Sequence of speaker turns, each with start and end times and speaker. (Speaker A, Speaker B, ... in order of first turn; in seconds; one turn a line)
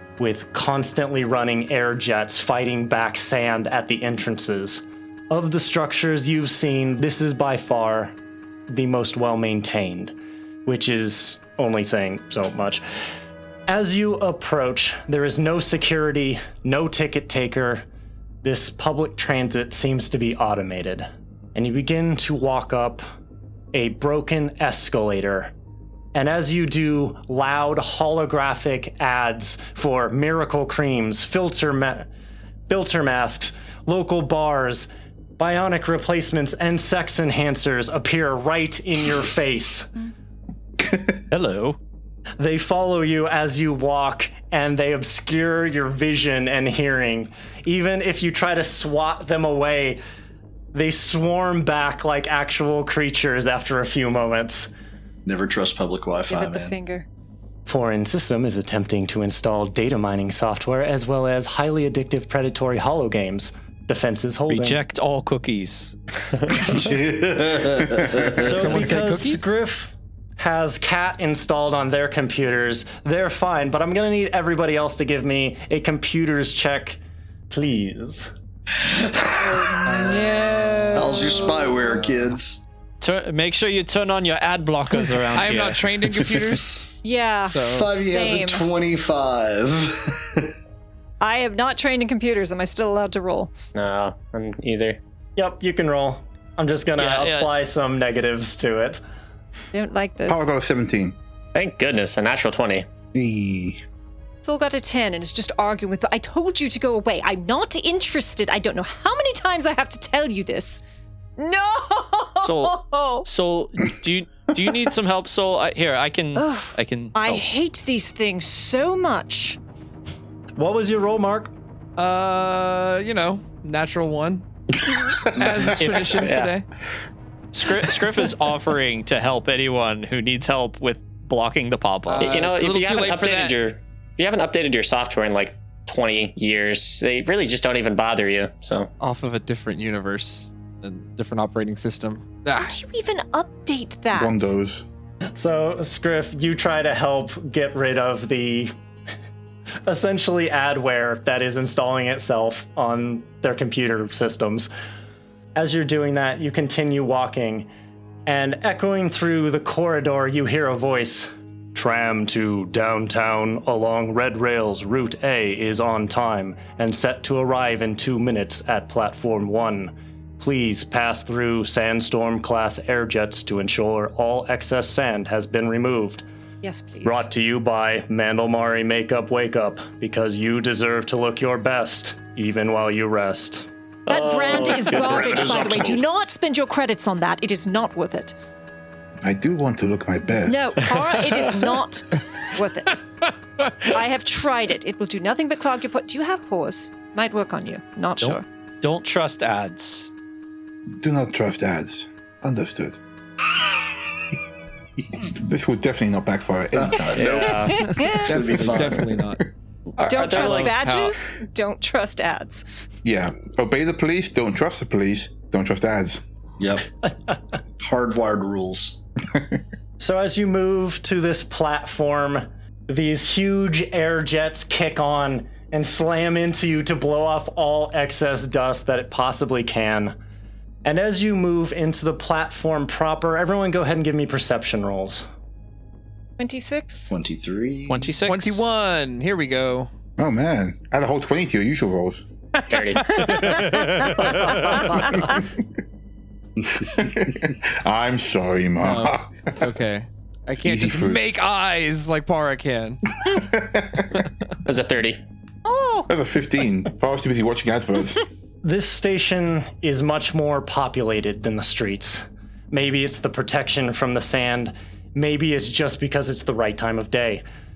Speaker A: 0.2-8.1
Speaker A: 8.7-10.2
Speaker A: 10.7-12.8
Speaker A: 13.7-17.8
Speaker A: 18.4-23.0
Speaker A: 23.7-25.5
Speaker A: 26.1-32.1
Speaker A: 32.7-34.9
Speaker A: 35.4-39.9
Speaker B: 41.3-41.8
Speaker A: 42.4-50.0
Speaker A: 50.7-54.7
Speaker C: 55.3-56.8
Speaker D: 56.3-57.1
Speaker A: 57.7-64.8
Speaker B: 64.5-66.0
Speaker C: 66.5-68.7
Speaker A: 68.3-77.0
Speaker E: 68.4-69.5
Speaker A: 77.5-78.3
Speaker C: 78.8-80.3
Speaker E: 79.9-80.2
Speaker B: 80.3-81.3
Speaker C: 80.9-82.6
Speaker B: 83.0-86.2
Speaker E: 85.2-86.9
Speaker D: 87.0-88.7
Speaker E: 87.5-87.9
Speaker C: 87.7-90.5
Speaker D: 91.2-93.5
Speaker F: 93.7-95.0
Speaker A: 95.4-99.0
Speaker B: 97.0-97.5
Speaker D: 99.7-100.5
Speaker G: 100.3-101.2
Speaker F: 101.5-102.9
Speaker G: 103.1-103.8
Speaker D: 104.4-110.8
Speaker D: 111.4-113.3
Speaker B: 112.4-117.4
Speaker D: 116.3-119.6
Speaker A: 120.6-121.5
Speaker E: 122.0-124.4
Speaker G: 125.2-125.7
Speaker E: 125.3-126.7
Speaker B: 125.8-126.4
Speaker F: 126.2-126.5
Speaker B: 127.5-132.5
Speaker E: 132.2-133.6
Speaker F: 132.2-138.9
Speaker E: 139.0-142.8
Speaker D: 142.5-144.5
Speaker G: 144.1-144.8
Speaker A: 145.3-148.7
Speaker A: 149.9-154.7
Speaker A: 155.6-157.7
Speaker A: 158.3-176.2
Speaker D: 176.6-177.3
Speaker A: 177.0-183.7
Speaker D: 184.1-188.3
Speaker C: 184.5-186.0
Speaker G: 189.2-191.2
Speaker D: 190.4-193.1
Speaker D: 193.8-198.4
Speaker B: 198.2-200.1
Speaker G: 201.0-203.0
Speaker G: 205.3-207.6
Speaker C: 206.8-209.2
Speaker F: 207.1-207.8
Speaker D: 207.8-208.4
Speaker E: 208.1-209.4
Speaker B: 210.0-211.1
Speaker D: 210.0-212.7
Speaker F: 210.1-210.5
Speaker E: 210.2-210.7
Speaker G: 213.0-216.2
Speaker C: 216.6-216.8
Speaker C: 217.8-219.0
Speaker A: 220.0-230.2
Speaker A: 230.8-235.3
Speaker D: 236.4-237.1
Speaker C: 237.1-238.1
Speaker B: 237.9-238.7
Speaker E: 238.3-239.9
Speaker G: 240.2-242.2
Speaker F: 242.7-243.7
Speaker E: 242.9-244.5
Speaker F: 244.5-244.8
Speaker G: 245.0-245.4
Speaker G: 246.8-249.7
Speaker E: 248.8-253.0
Speaker G: 250.6-251.3
Speaker G: 253.3-254.2
Speaker F: 254.7-255.2
Speaker D: 255.7-256.1
Speaker G: 256.1-258.3
Speaker A: 258.6-267.4